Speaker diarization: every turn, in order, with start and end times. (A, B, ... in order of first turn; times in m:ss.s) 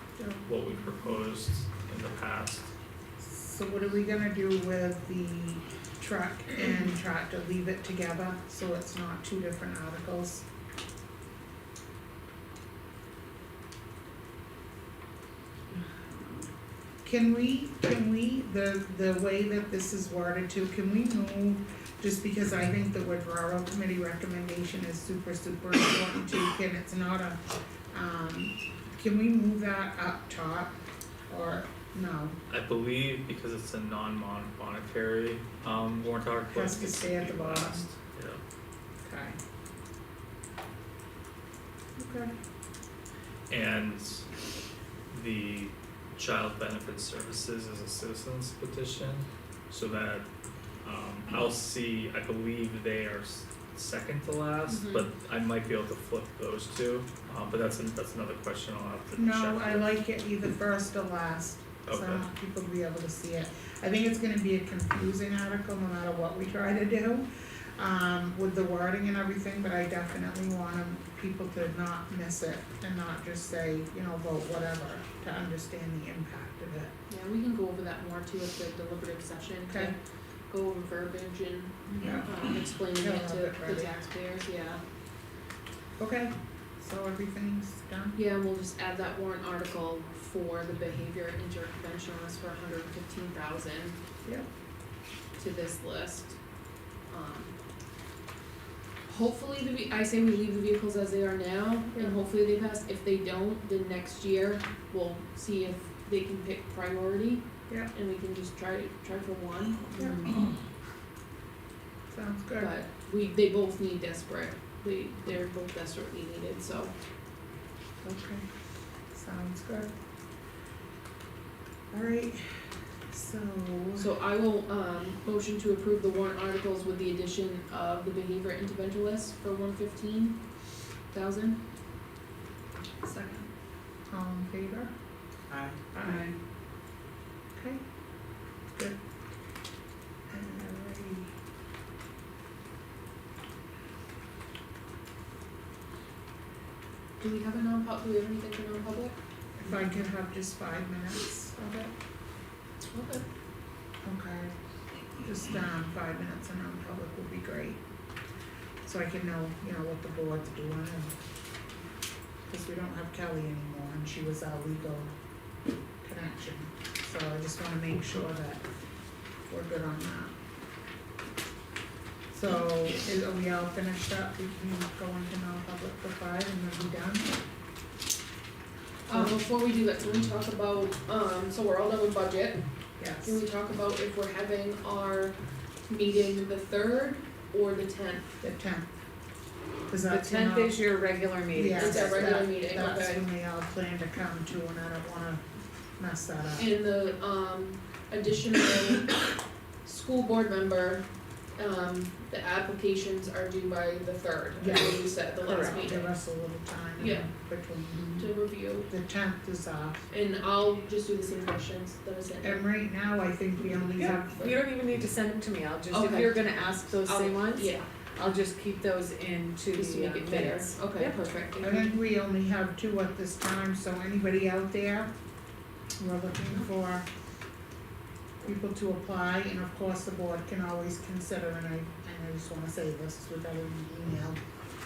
0:00.2-0:00.5 A
0:00.4-0:02.7 B
0:03.2-0:10.4 A
0:17.0-0:27.4 A
0:27.9-0:30.8 A
0:31.3-0:32.4 A
0:32.5-0:38.4 B
0:36.5-0:37.9 A
0:39.0-0:39.4 A
0:42.0-0:42.3 A
0:43.5-0:44.3 B
0:45.1-0:50.3 B
0:50.8-0:59.9 B
0:54.7-0:55.1 C
0:59.2-1:16.9 A
1:01.9-1:02.2 B
1:17.1-1:20.0 C
1:20.5-1:24.8 C
1:22.0-1:23.9 A
1:26.0-1:28.2 A
1:28.2-1:34.0 C
1:35.4-1:36.4 C
1:37.1-1:37.6 C
1:39.1-1:50.2 C
1:50.0-1:50.3 A
1:52.1-1:52.7 A
1:52.6-1:56.9 C
1:58.0-1:58.5 A
1:59.1-1:59.9 A
2:01.9-2:04.1 A
2:04.0-2:10.4 C
2:11.1-2:11.6 C
2:13.0-2:13.5 C
2:14.1-2:14.9 A
2:15.5-2:16.3 D
2:15.9-2:16.3 A
2:17.5-2:17.8 A
2:18.7-2:19.0 A
2:20.3-2:21.3 A
2:27.2-2:29.2 C
2:29.6-2:31.9 A
2:32.8-2:33.2 C
2:34.0-2:34.5 A
2:35.2-2:37.8 A
2:38.8-2:41.2 A
2:42.5-2:45.1 A
2:46.0-2:48.6 A
2:49.5-2:50.3 A
2:52.3-2:57.3 A
2:59.1-3:02.7 C
2:59.1-2:59.4 A
3:03.0-3:03.4 A
3:03.2-3:08.3 C
3:08.4-3:08.9 A
3:09.9-3:10.8 A
3:10.1-3:12.3 D
3:11.5-3:15.5 A
3:11.8-3:13.2 C
3:16.0-3:16.7 A
3:16.6-3:19.3 C
3:19.8-3:26.1 C
3:24.6-3:30.0 A
3:25.5-3:25.8 D
3:27.0-3:27.3 C
3:28.2-3:28.9 C
3:30.1-3:32.7 C
3:32.4-3:34.6 A
3:34.0-3:41.2 D
3:35.9-3:37.9 C
3:39.7-3:42.0 C
3:41.6-3:45.1 A
3:46.0-3:47.0 A
3:48.4-3:54.4 A